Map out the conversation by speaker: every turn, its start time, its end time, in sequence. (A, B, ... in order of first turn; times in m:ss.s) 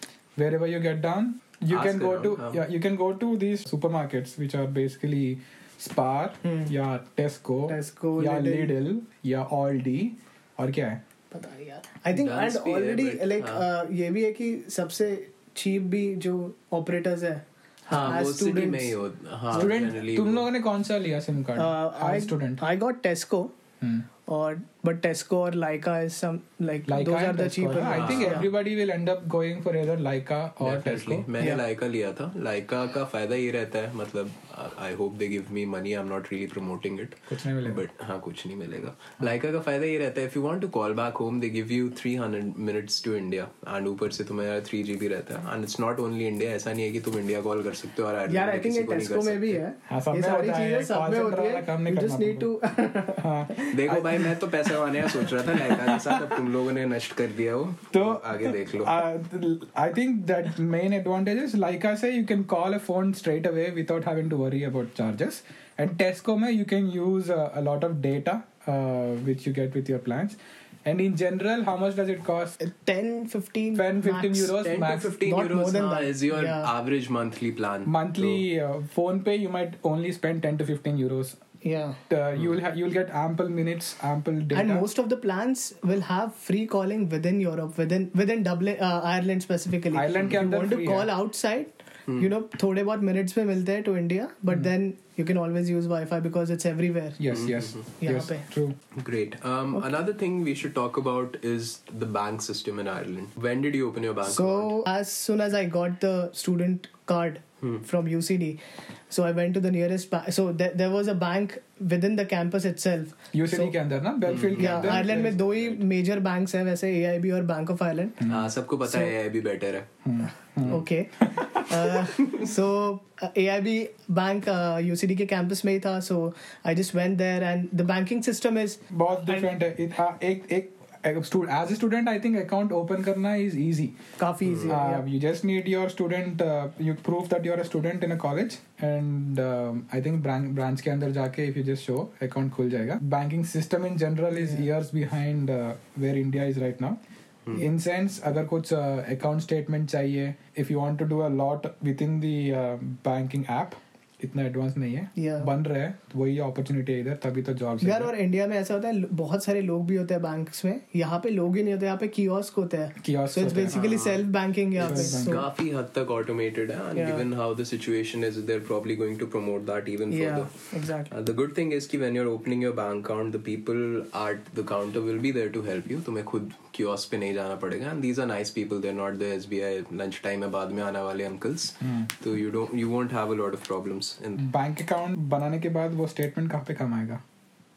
0:00.4-0:11.0 A
0:01.7-0:02.6 B
0:06.4-0:06.7 C
0:07.7-0:08.7 C
0:11.3-0:19.0 C
0:12.1-0:13.6 B
0:17.9-0:20.5 B
0:19.5-0:22.6 A
0:21.6-0:23.5 C
0:23.8-0:24.0 A
0:24.3-0:28.4 C
0:26.9-0:31.3 A
0:27.9-0:28.4 B
0:30.6-0:49.6 B
0:37.3-0:37.8 A
0:48.3-0:53.7 C
0:49.9-0:52.5 A
0:53.2-0:54.7 A
0:53.7-0:59.0 B
0:55.2-0:56.4 A
0:57.9-1:12.6 A
1:12.6-1:14.6 C
1:13.7-1:15.2 A
1:14.5-1:18.4 B
1:15.1-1:16.7 C
1:17.8-1:21.4 A
1:21.6-1:22.0 C
1:22.1-1:24.8 A
1:24.5-1:37.3 C
1:29.9-1:31.1 A
1:37.2-1:38.8 A
1:37.3-1:37.8 B
1:38.0-1:38.5 C
1:38.9-1:44.8 B
1:44.2-1:53.7 C
1:53.3-1:55.3 A
1:54.3-1:55.8 B
1:54.6-1:58.2 C
1:58.2-1:58.5 A
1:58.3-1:59.9 B
2:00.0-2:01.6 A
2:00.7-2:09.5 C
2:08.9-2:14.0 A
2:14.2-2:15.0 C
2:14.6-2:27.0 A
2:27.5-2:38.1 A
2:35.2-2:35.5 C
2:37.8-2:45.4 C
2:43.0-2:43.8 A
2:43.7-2:44.2 B
2:44.8-2:45.4 A
2:44.8-2:50.6 B
2:46.9-2:47.2 C
2:50.1-2:51.1 C
2:51.1-3:04.4 B
3:01.8-3:02.1 A
3:04.4-3:07.2 A